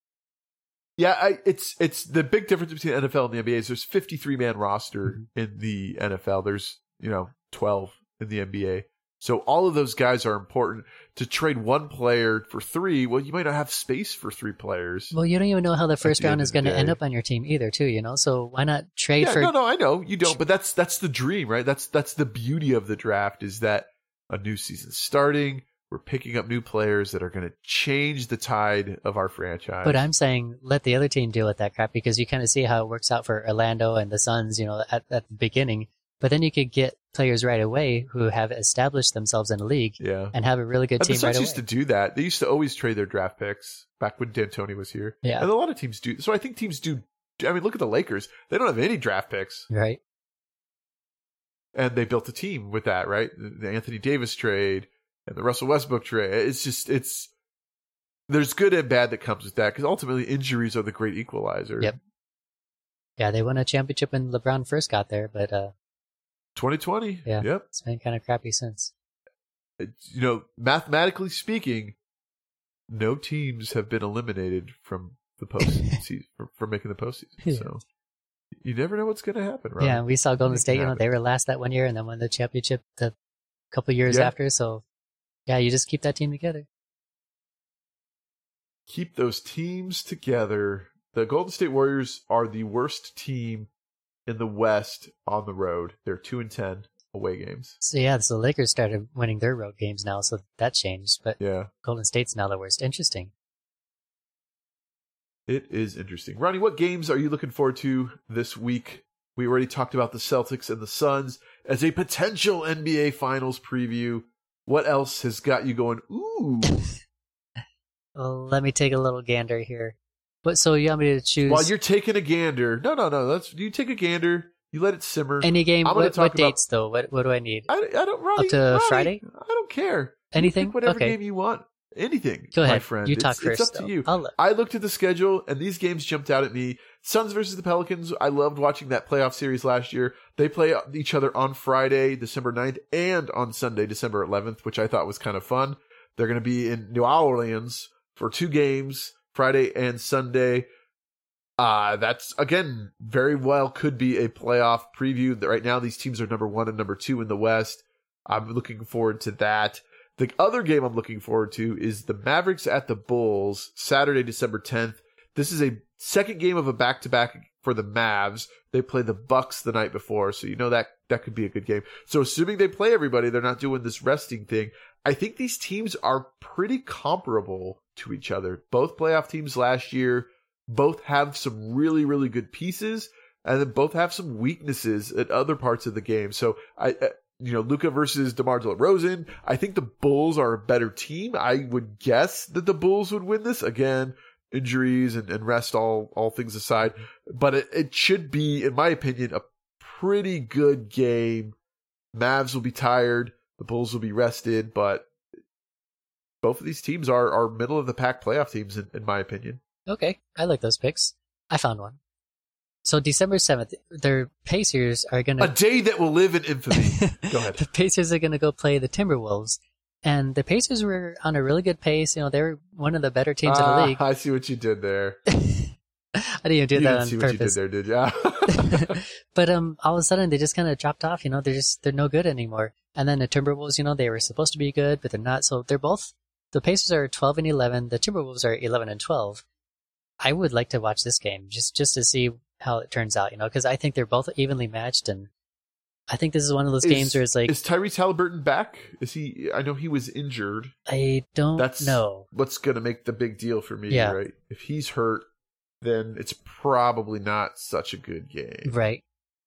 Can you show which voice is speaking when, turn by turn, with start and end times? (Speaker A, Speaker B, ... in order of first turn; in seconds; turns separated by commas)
Speaker A: 1.0-15.1, Speaker B: 15.1-19.5, Speaker A: 16.0-17.0, Speaker A: 19.2-30.1, Speaker B: 29.8-41.6, Speaker A: 40.0-40.3, Speaker A: 41.0-49.7, Speaker B: 49.7-50.0, Speaker A: 51.7-57.3, Speaker A: 58.3-62.0, Speaker B: 63.2-65.7, Speaker A: 66.5-67.7, Speaker B: 67.2-68.9, Speaker A: 69.8-71.9, Speaker A: 72.9-77.8, Speaker A: 78.6-81.0, Speaker B: 79.8-83.1, Speaker B: 83.7-84.8, Speaker A: 84.1-84.3, Speaker B: 85.5-86.7, Speaker A: 88.9-93.7, Speaker A: 94.3-97.8, Speaker B: 97.8-103.3, Speaker A: 101.4-101.7, Speaker A: 105.5-116.9, Speaker B: 118.2-121.7, Speaker A: 121.5-126.6, Speaker B: 125.4-127.7, Speaker A: 127.7-150.7, Speaker B: 128.3-129.2, Speaker B: 130.3-131.2, Speaker B: 132.5-134.3, Speaker A: 151.6-201.5, Speaker A: 202.1-205.1, Speaker A: 206.4-209.6, Speaker B: 209.9-212.0, Speaker B: 212.8-215.5, Speaker A: 215.4-217.6, Speaker B: 216.7-224.0, Speaker A: 223.4-225.2, Speaker B: 225.3-225.7, Speaker B: 226.4-227.6, Speaker A: 226.7-229.0, Speaker B: 228.5-239.4, Speaker B: 240.2-245.3, Speaker B: 246.1-247.5, Speaker A: 246.8-250.7, Speaker B: 250.9-252.2, Speaker A: 251.6-255.2, Speaker B: 253.9-254.2, Speaker A: 255.8-258.8, Speaker B: 258.6-259.0